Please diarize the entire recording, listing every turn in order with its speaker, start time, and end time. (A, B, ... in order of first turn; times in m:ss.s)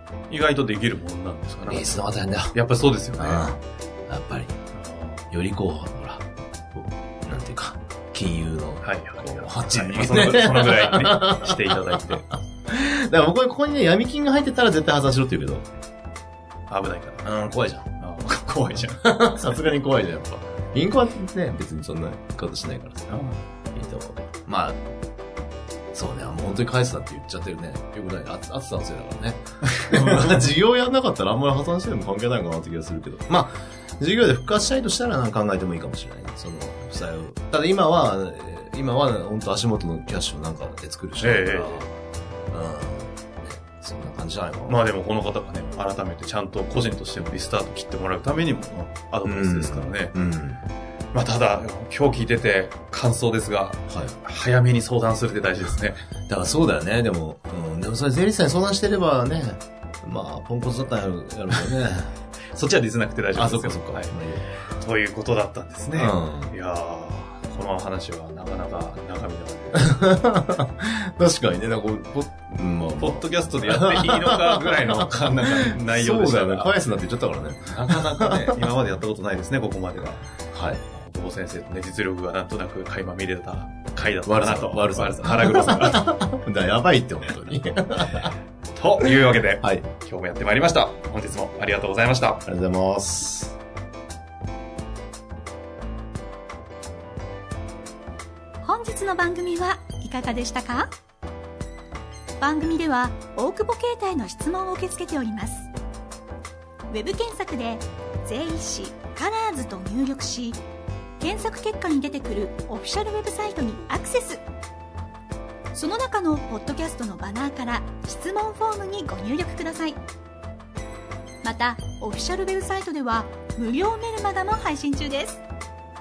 0:00.3-0:03.5 A
0:01.6-0:02.6 B
0:03.2-0:04.5 B
0:04.8-0:05.3 A
0:05.3-0:15.7 B
0:08.8-0:12.3 A
0:16.7-0:17.2 A
0:17.2-0:17.9 B
0:18.0-0:19.0 A
0:19.0-0:23.1 B
0:23.1-0:23.4 A
0:23.7-0:24.8 B
0:25.9-0:41.9 B
0:29.8-0:30.4 A
0:41.2-0:41.9 A
0:42.5-0:44.8 B
0:44.7-0:50.1 A
0:49.2-0:50.6 B
0:51.1-0:56.0 A
0:53.9-0:54.2 B
0:56.3-1:02.1 B
1:02.5-1:04.1 A
1:03.3-1:04.5 B
1:04.7-1:10.1 A
1:06.0-1:06.5 B
1:09.8-1:18.6 B
1:13.0-1:16.7 A
1:17.7-1:20.2 A
1:20.5-1:20.8 B
1:20.9-1:26.1 A
1:24.2-1:28.3 B
1:28.7-1:32.4 A
1:29.0-1:29.8 B
1:32.5-1:33.5 B
1:38.6-1:40.9 C
1:42.4-1:45.7 C
1:46.9-1:50.6 C
1:51.2-1:54.4 C
1:55.7-2:00.0 C
2:01.4-2:05.4 C